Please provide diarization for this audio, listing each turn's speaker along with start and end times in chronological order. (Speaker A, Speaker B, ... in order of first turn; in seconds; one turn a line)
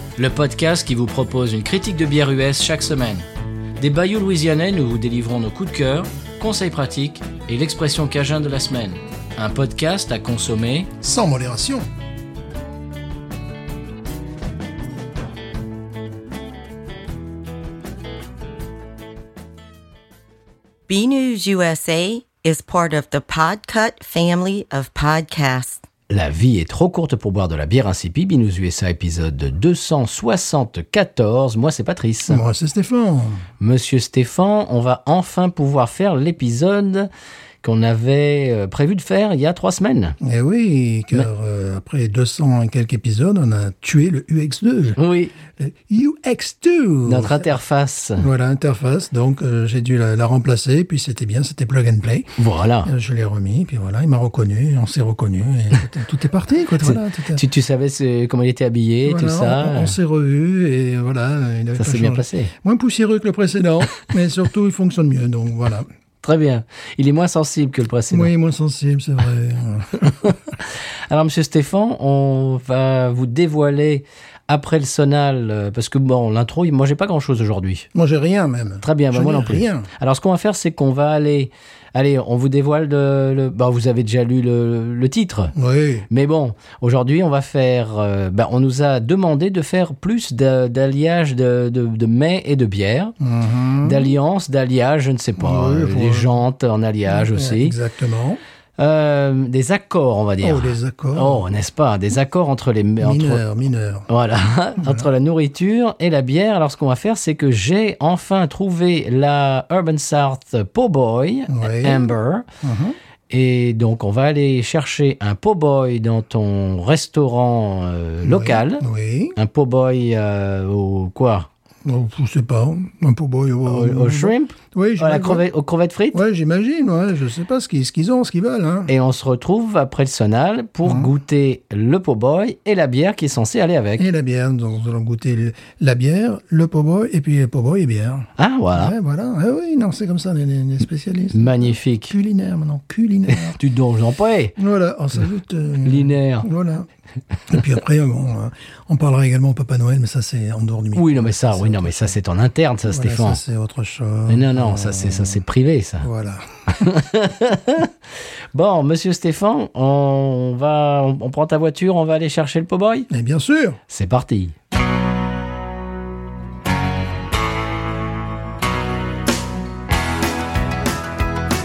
Speaker A: 0.2-3.3
Speaker A: 3.8-10.9
Speaker B: 11.0-11.9
Speaker C: 20.9-25.8
Speaker A: 26.1-32.5
Speaker B: 32.3-33.5
Speaker A: 33.6-37.1
Speaker A: 37.6-40.2
Speaker B: 40.2-45.0
Speaker A: 45.0-45.4
Speaker B: 45.6-47.5
Speaker A: 47.0-48.3
Speaker B: 48.2-57.4
Speaker A: 52.4-52.9
Speaker A: 56.8-60.0
Speaker B: 59.1-65.9
Speaker A: 61.8-62.5
Speaker A: 66.2-68.3
Speaker B: 68.1-70.2
Speaker A: 70.0-77.9
Speaker B: 77.9-79.9
Speaker A: 78.8-85.5
Speaker B: 85.5-86.1
Speaker A: 86.1-93.1
Speaker B: 93.2-94.2
Speaker A: 93.8-97.8
Speaker B: 95.4-96.3
Speaker B: 97.1-98.4
Speaker A: 98.8-103.4
Speaker B: 100.4-101.4
Speaker B: 103.0-104.1
Speaker A: 104.1-112.5
Speaker B: 104.8-105.1
Speaker B: 111.5-113.0
Speaker A: 113.3-118.8
Speaker B: 118.2-119.4
Speaker A: 119.4-121.5
Speaker B: 121.8-125.5
Speaker A: 123.7-126.2
Speaker B: 126.1-128.9
Speaker A: 128.9-134.1
Speaker B: 130.8-131.1
Speaker B: 134.0-143.6
Speaker A: 138.4-138.9
Speaker A: 141.3-142.2
Speaker A: 143.3-144.6
Speaker B: 144.6-146.9
Speaker A: 145.8-146.5
Speaker B: 147.5-152.2
Speaker A: 151.0-153.4
Speaker B: 152.9-155.4
Speaker A: 154.3-156.1
Speaker B: 156.0-156.8
Speaker A: 156.7-157.9
Speaker A: 158.5-163.1
Speaker B: 163.1-163.8
Speaker A: 163.9-164.6